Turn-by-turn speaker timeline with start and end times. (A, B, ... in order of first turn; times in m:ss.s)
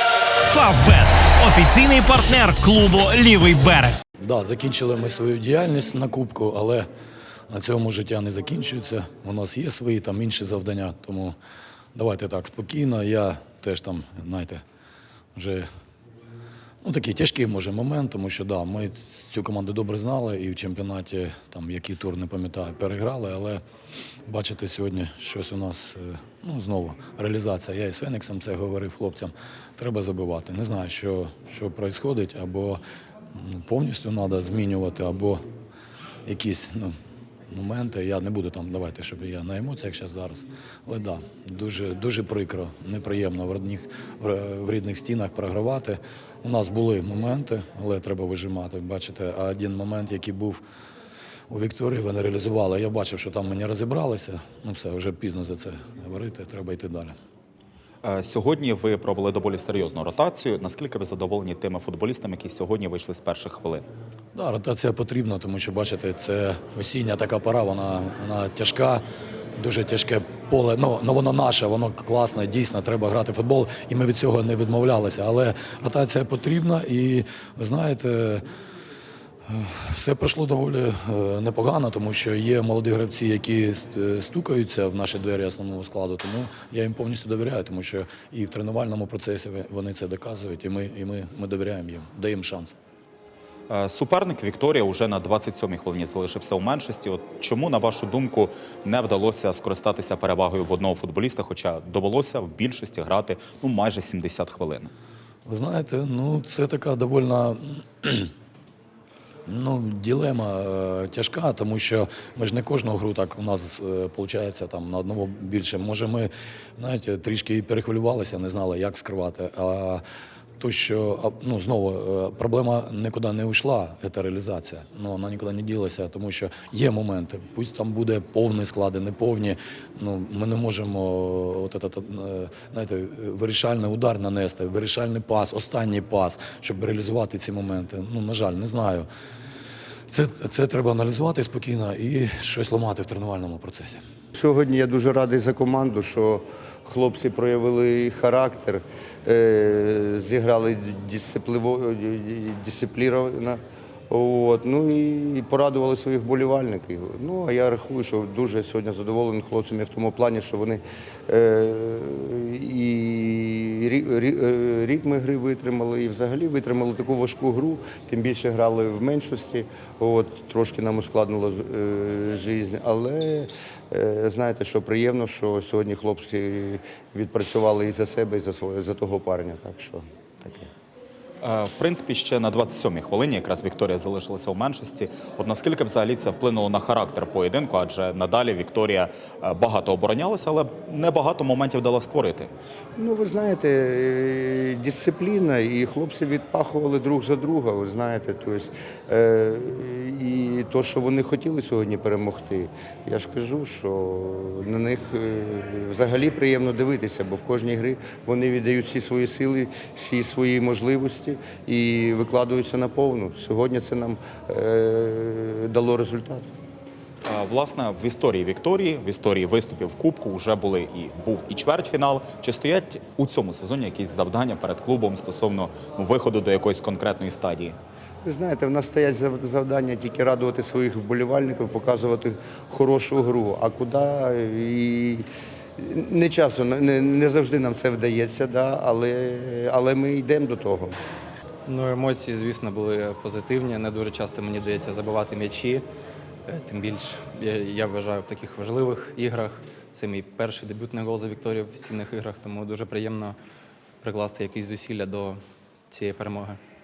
0:00.4-0:04.0 A
0:04.2-0:06.9 B
0:07.5-0:11.4 B
0:11.9-0:14.6 B
0:15.3-0:15.7 B
0:16.8-0:23.6 B
0:24.3-0:32.8 B
0:33.3-0:35.4 B
0:36.2-0:37.0 B
0:37.5-0:50.6 B
0:51.5-0:57.2 B
0:58.0-1:03.9 C
1:04.3-1:09.0 B
1:09.6-1:18.4 B
1:19.5-1:32.7 B
1:33.7-1:44.9 C
1:45.4-1:48.3 B
1:49.4-2:00.0 B
2:00.6-2:19.1 B
2:20.1-2:24.0 B
2:24.3-3:00.7 D
3:01.4-3:12.5 C
3:13.0-3:36.5 D
3:37.2-3:47.8 C
3:48.2-3:55.2 D
3:55.8-4:01.0 D
4:01.7-4:05.8 E
4:06.5-4:13.4 E
4:14.0-4:15.4 E
4:15.9-4:16.6 E